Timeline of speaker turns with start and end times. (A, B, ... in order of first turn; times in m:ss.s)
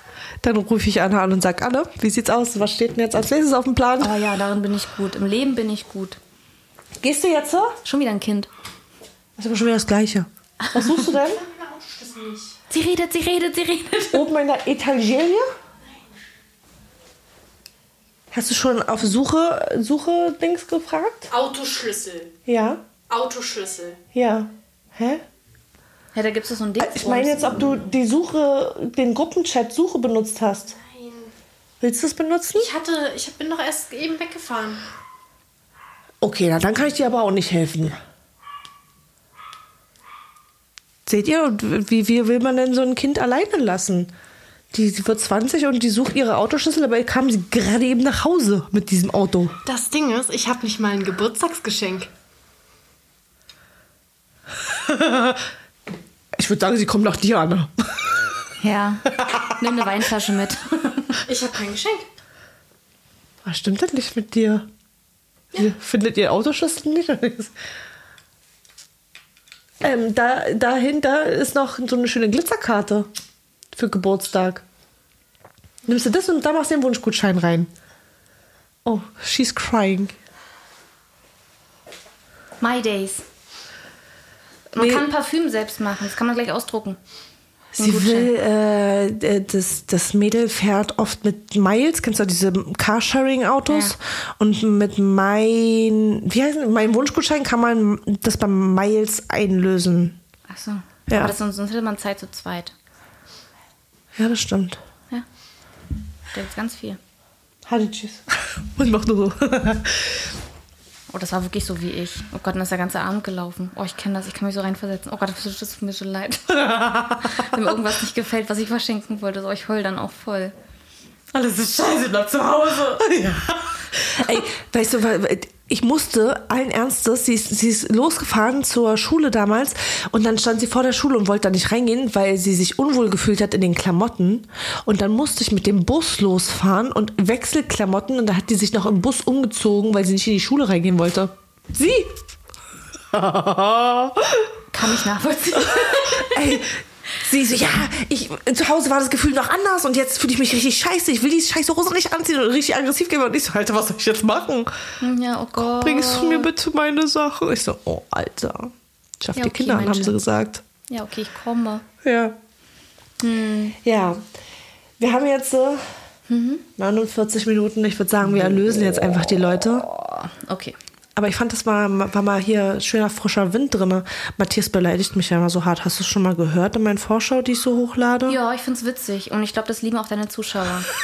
0:00.4-0:04.1 A
0:04.0-0:06.2 B
0:07.0-0:07.8 A
0:07.8-0:08.5 B
0:09.4-0:11.4 A
0:10.6-0:10.9 B
0:11.2-0:12.6 C
0:12.7-0:14.2 B
0:14.1-0:15.5 A
0:18.3-0:21.3 A
0:21.3-0:22.4 C
0:22.4-0:22.8 A
0:23.1-0:24.0 C
0:24.1-0:25.2 A
0:26.1-0:27.7 B
0:26.8-0:30.7 A
0:30.7-0:31.3 C
0:31.8-0:32.7 A
0:32.5-0:34.8 C
0:36.2-0:38.0 A
0:41.0-0:44.1 A
0:44.7-0:49.5 A
0:49.6-0:52.1 C
0:54.8-0:55.4 A
0:56.4-0:58.0 A
0:58.6-1:01.2 B
1:01.3-1:02.1 C
1:03.4-1:04.6 A
1:05.6-1:07.5 A
1:09.8-1:13.1 A
1:13.7-1:14.6 A
1:15.8-1:17.7 A
1:18.8-1:20.1 A
1:22.6-1:23.2 B
1:24.7-1:27.0 B
1:24.8-1:25.0 A
1:27.7-1:40.2 A
1:27.8-1:28.3 B
1:33.7-1:33.9 B
1:40.5-1:42.7 B
1:41.1-1:41.3 A
1:44.2-1:44.8 A
1:46.3-1:47.0 B
1:47.6-1:50.2 A
1:51.1-2:00.5 B
1:56.8-1:57.2 A
2:01.3-2:03.1 B
2:03.1-2:22.2 A
2:23.1-2:24.5 A
2:24.7-2:26.6 B
2:25.6-2:34.7 A
2:35.0-2:36.5 B
2:35.6-2:40.6 A
2:39.4-2:40.2 B
2:40.9-2:41.8 B
2:42.0-2:42.4 A
2:43.2-2:43.8 B
2:43.8-2:44.2 A
2:45.0-2:45.8 A
2:46.3-2:46.6 B
2:46.8-2:49.9 A
2:49.9-2:50.8 B
2:51.2-2:58.4 A
2:58.3-3:00.9 B